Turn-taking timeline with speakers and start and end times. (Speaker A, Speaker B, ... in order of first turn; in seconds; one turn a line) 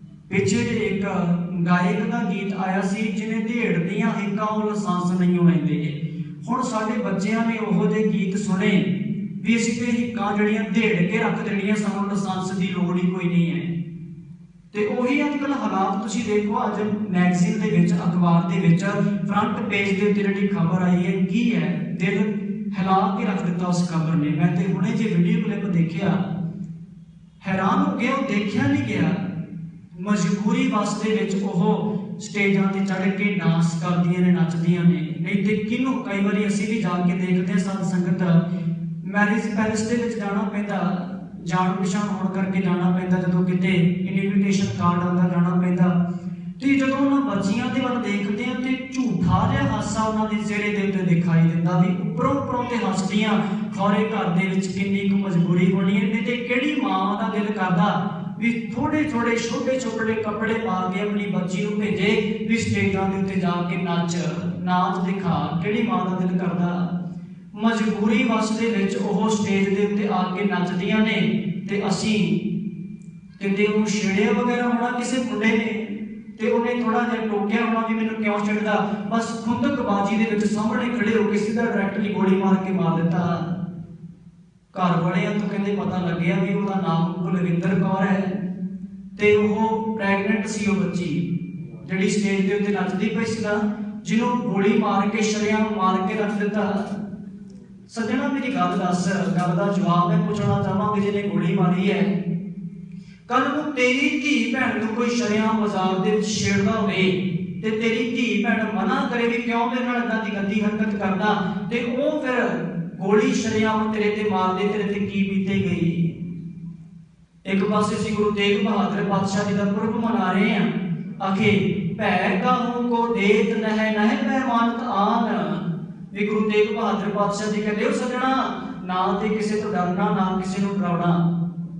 Speaker A: 0.3-8.9
Speaker A: 9.4-13.7
Speaker A: 14.7-26.2
Speaker A: 27.4-29.2
Speaker A: 29.9-38.4
Speaker A: 39.0-45.9
Speaker A: 46.6-66.9
Speaker A: 67.5-72.4
Speaker A: 73.4-83.5
Speaker A: 84.7-88.3
Speaker A: 89.2-91.2
Speaker A: 91.8-96.9
Speaker A: 97.9-102.1
Speaker A: 103.3-116.2
Speaker A: 117.4-131.2